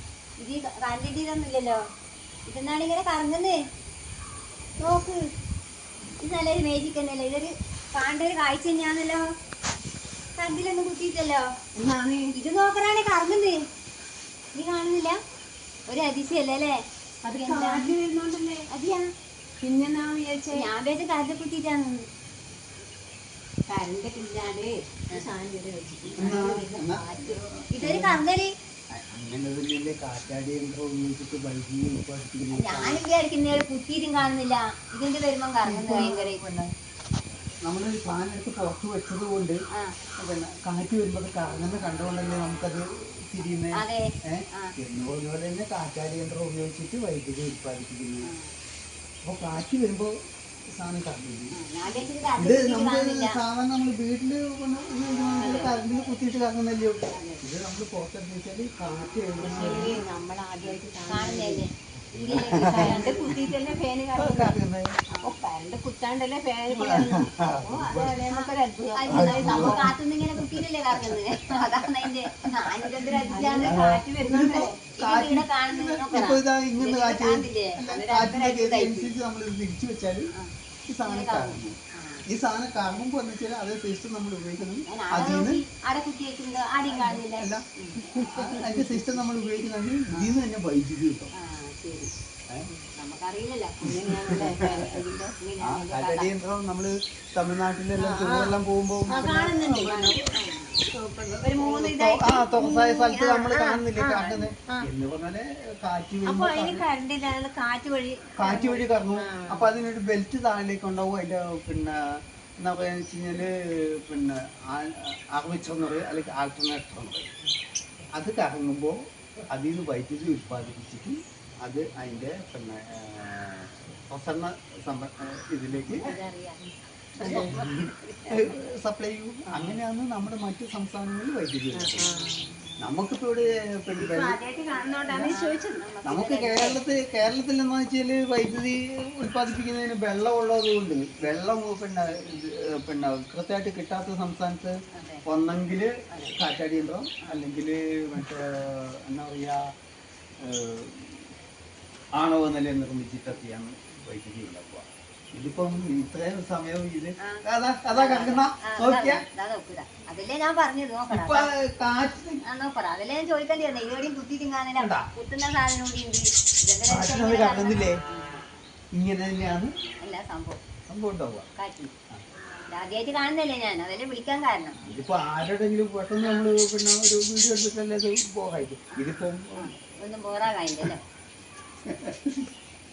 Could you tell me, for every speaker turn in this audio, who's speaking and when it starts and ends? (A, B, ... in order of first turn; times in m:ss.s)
0:00.4-0:01.8 A
0:02.5-0:03.6 A
0:04.8-0:05.2 B
0:06.2-0:09.2 A
0:10.4-0:11.5 A
0:11.8-0:12.3 B
0:12.3-0:13.6 A
0:14.6-0:15.2 A
0:15.9-0:18.0 A
0:17.2-0:18.7 B
0:18.7-0:19.1 A
0:19.6-0:20.7 B
0:20.5-0:22.0 A
0:23.7-0:27.4 B
0:26.2-0:28.2 C
0:27.7-0:28.5 A
0:28.9-0:33.0 C
0:32.5-0:36.4 A
0:35.6-0:36.7 C
0:37.6-0:39.6 C
0:40.2-0:43.8 C
0:43.8-0:44.7 A
0:44.3-0:48.3 C
0:48.2-0:48.5 A
0:49.2-0:50.1 C
0:50.8-1:00.0 C
0:51.6-0:53.4 A
0:55.4-0:55.8 B
0:57.1-0:57.4 A
0:59.4-1:01.6 B
1:01.1-1:03.6 A
1:02.3-1:04.6 B
1:02.3-1:03.1 C
1:04.2-1:04.9 C
1:05.1-1:05.4 A
1:05.2-1:09.9 B
1:06.7-1:08.2 C
1:08.3-1:19.1 A
1:09.1-1:12.1 C
1:12.8-1:20.3 C
1:13.3-1:14.8 B
1:20.9-1:21.8 C
1:21.0-1:22.2 A
1:22.3-1:25.6 C
1:24.9-1:28.0 A
1:26.9-1:31.3 C
1:28.4-1:29.1 B
1:30.1-1:30.4 A
1:31.4-1:32.1 A
1:33.0-1:33.9 A
1:33.8-1:35.4 B
1:34.1-1:34.9 C
1:35.4-1:36.3 A
1:35.6-1:46.9 C
1:38.0-1:38.6 B
1:39.1-1:39.9 B
1:39.2-1:40.8 A
1:41.5-1:42.2 A
1:42.1-1:44.9 B
1:46.3-1:47.0 B
1:47.0-1:48.5 A
1:48.4-1:52.0 C
1:48.5-1:49.7 B
1:52.6-1:57.3 C
1:58.1-1:59.0 C
1:59.5-2:06.0 C
2:06.0-2:06.6 A
2:07.2-2:07.6 B
2:07.2-2:08.5 A
2:07.2-2:12.1 C
2:11.7-2:12.8 B
2:12.8-2:14.4 C
2:13.9-2:15.8 B
2:14.7-2:16.8 A
2:16.0-2:24.7 C
2:25.0-2:25.2 A
2:25.3-2:29.6 C
2:26.1-2:26.3 A
2:30.4-2:31.2 C
2:32.2-2:39.2 C
2:37.9-2:41.5 A
2:41.1-2:42.4 C
2:42.4-2:48.4 A
2:44.8-2:45.1 C
2:46.9-2:48.0 C
2:48.9-2:49.8 C
2:50.0-2:50.6 A
2:50.9-2:51.5 C
2:51.6-2:51.9 A
2:52.7-2:54.8 A
2:54.9-2:59.7 C
2:56.2-2:56.5 A
2:59.6-3:01.0 A
3:01.8-3:02.5 C